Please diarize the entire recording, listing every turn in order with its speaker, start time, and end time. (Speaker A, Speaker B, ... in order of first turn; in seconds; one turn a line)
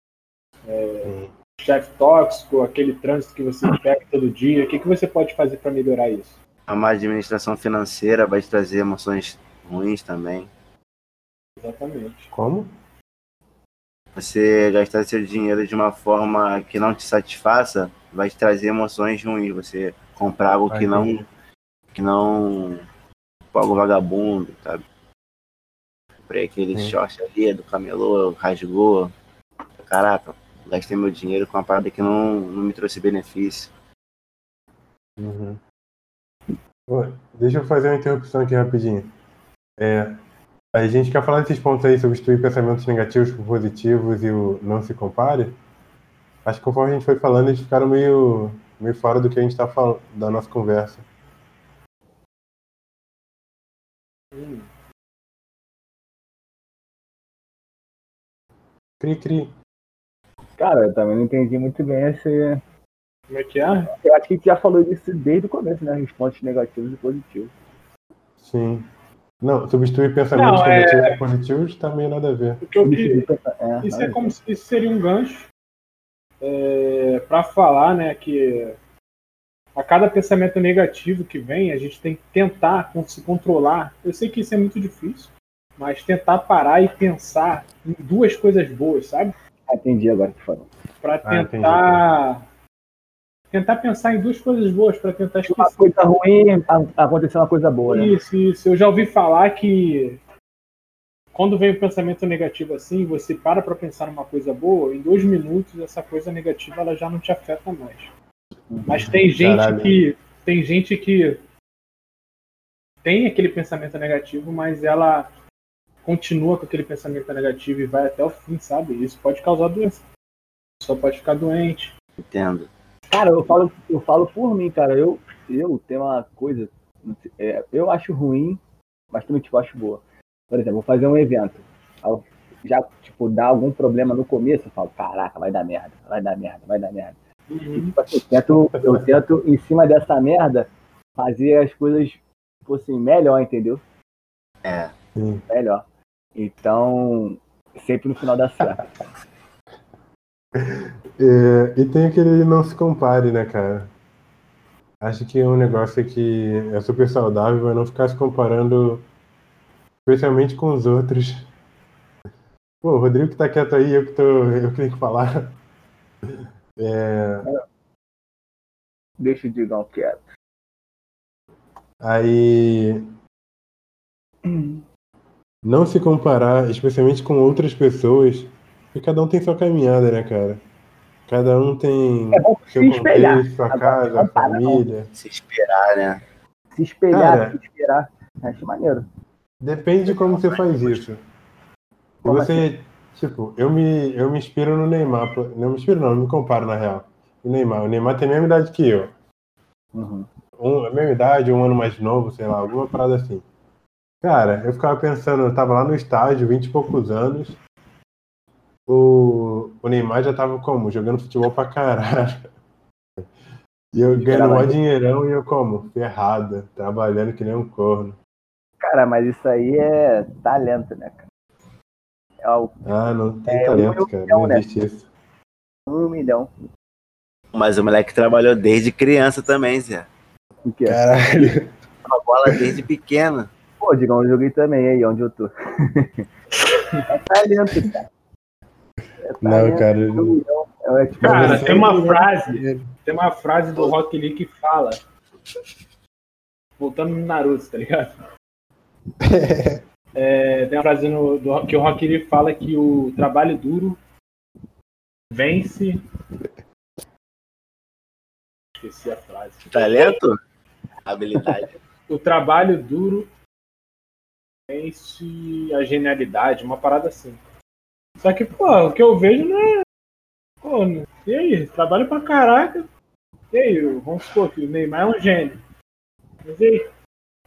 Speaker A: 0.7-6.4
Speaker B: 1.0-1.3
Speaker C: 6.7-10.5
Speaker A: 11.6-12.3
Speaker B: 12.3-12.7
Speaker C: 14.1-21.2
Speaker B: 20.7-21.2
Speaker C: 21.9-22.8
Speaker C: 23.5-24.8
Speaker C: 26.2-29.1
Speaker C: 29.8-33.7
Speaker B: 35.2-35.6
Speaker B: 36.9-39.1
Speaker B: 39.8-40.2
Speaker B: 40.7-45.5
Speaker B: 46.4-51.0
Speaker A: 54.3-54.7
Speaker B: 59.0-59.5
Speaker D: 60.6-62.6
Speaker A: 63.3-63.9
Speaker D: 64.0-67.5
Speaker B: 68.4-68.9
Speaker B: 69.4-72.6
Speaker A: 70.3-71.2
Speaker A: 72.6-73.2
Speaker D: 72.8-74.3
Speaker A: 73.8-75.5
Speaker A: 76.4-78.8
Speaker A: 79.8-89.3
Speaker D: 89.7-90.7
Speaker A: 91.0-92.4
Speaker B: 91.2-92.0
Speaker A: 93.5-95.9
Speaker D: 95.5-98.1
Speaker A: 97.9-100.2
Speaker A: 101.3-108.1
Speaker D: 108.7-109.0
Speaker A: 108.9-111.4
Speaker B: 108.9-110.0
Speaker A: 113.0-115.3
Speaker A: 116.0-120.0
Speaker A: 120.8-121.9
Speaker C: 122.2-122.7
Speaker D: 123.1-128.6
Speaker D: 129.1-137.2
Speaker A: 137.5-137.9
Speaker D: 137.7-143.8
Speaker C: 144.6-144.9
Speaker B: 145.2-145.4
Speaker D: 145.5-145.8
Speaker D: 146.3-148.9
Speaker B: 150.6-153.9
Speaker B: 155.0-159.1
Speaker B: 160.1-161.5
Speaker B: 162.8-165.6
Speaker B: 166.8-167.5
Speaker D: 169.2-170.3
Speaker B: 172.0-173.0
Speaker D: 174.4-174.8
Speaker B: 175.6-180.6
Speaker B: 181.3-185.1
Speaker D: 182.3-184.8
Speaker C: 185.1-186.2
Speaker D: 186.7-189.1
Speaker B: 187.1-187.6
Speaker B: 189.6-191.2
Speaker C: 190.1-191.0
Speaker B: 192.2-199.1
Speaker D: 192.2-192.7
Speaker D: 199.9-200.3
Speaker B: 200.6-203.4
Speaker B: 204.2-207.6
Speaker B: 208.9-212.4
Speaker B: 213.9-218.2
Speaker D: 214.1-214.8
Speaker D: 218.8-221.2
Speaker D: 222.4-222.9
Speaker B: 222.8-225.1
Speaker D: 223.4-224.6
Speaker D: 225.9-226.5
Speaker C: 227.5-230.1
Speaker D: 230.7-231.6
Speaker B: 230.8-231.7
Speaker C: 232.1-233.5
Speaker D: 233.8-236.3
Speaker A: 236.7-236.9
Speaker D: 237.1-238.1
Speaker D: 239.2-241.8
Speaker B: 239.4-240.4
Speaker A: 241.2-245.0
Speaker B: 241.2-242.9
Speaker A: 246.8-248.2
Speaker B: 249.2-249.8
Speaker A: 250.2-254.0
Speaker A: 255.3-256.0
Speaker A: 258.8-260.2
Speaker C: 259.7-260.4
Speaker C: 261.1-261.7
Speaker A: 262.1-263.3
Speaker A: 264.7-267.4
Speaker A: 268.2-269.8
Speaker A: 270.6-272.9
Speaker A: 273.5-275.6
Speaker A: 276.4-276.8